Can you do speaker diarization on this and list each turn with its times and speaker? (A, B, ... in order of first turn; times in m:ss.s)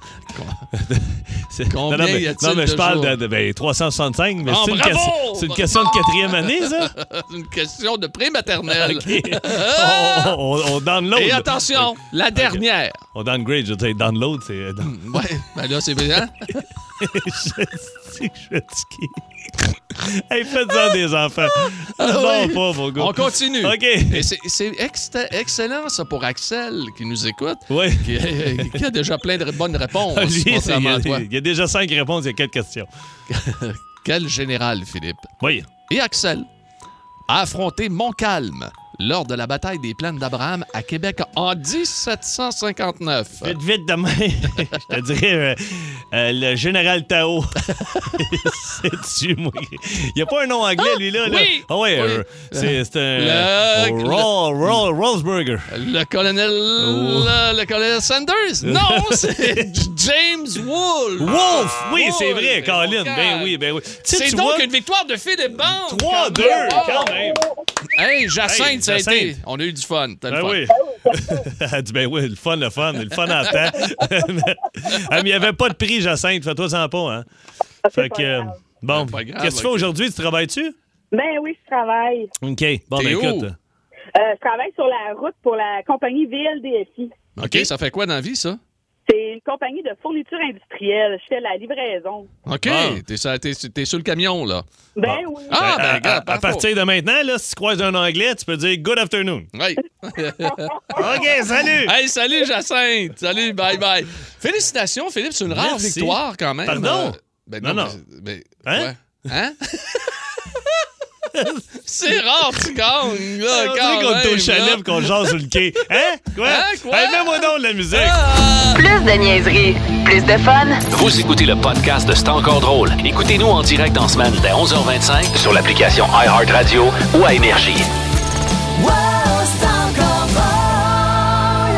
0:00.3-0:00.7 A
0:00.7-0:06.9 B
0:01.7-0:03.2 A
0:04.4-0:10.4 A
0:08.7-0:15.2 B
0:11.1-0:13.0 A
0:14.8-0:16.6 A
0:16.5-0:24.3 B
0:21.8-0:31.2 A
0:27.7-0:28.8 B
0:29.9-0:32.9 B
0:33.3-0:35.3 A
0:35.4-0:35.7 B
0:35.9-0:36.5 A
0:37.3-0:43.6 A
0:43.4-0:55.7 B
0:51.0-0:54.8 A
0:55.7-1:07.3 A
0:56.8-0:57.5 B
0:58.6-0:59.8 B
1:01.2-1:04.7 B
1:05.7-1:07.5 B
1:06.3-1:07.5 C
1:07.9-1:10.8 A
1:08.4-1:09.4 B
1:10.3-1:17.3 B
1:10.8-1:11.4 C
1:13.5-1:14.2 C
1:17.8-1:18.5 C
1:17.9-1:20.8 B
1:18.9-1:19.9 A
1:21.1-1:22.3 C
1:22.4-1:23.6 B
1:22.9-1:23.5 A
1:24.1-1:27.2 C
1:27.4-1:28.6 A
1:27.4-1:27.7 B
1:29.0-1:32.3 C
1:32.4-1:34.6 A
1:32.6-1:33.0 B
1:35.0-1:35.7 C
1:35.0-1:39.5 B
1:35.5-1:36.7 A
1:39.5-1:50.7 A
1:40.3-1:40.8 C
1:40.9-1:41.9 B
1:45.5-1:48.0 B
1:48.6-1:48.9 B
1:51.3-1:52.4 B
1:51.8-1:55.3 A
1:53.3-1:58.2 B
1:56.3-1:58.8 A
1:58.7-2:00.8 D
2:00.9-2:07.9 E
2:08.8-2:10.9 D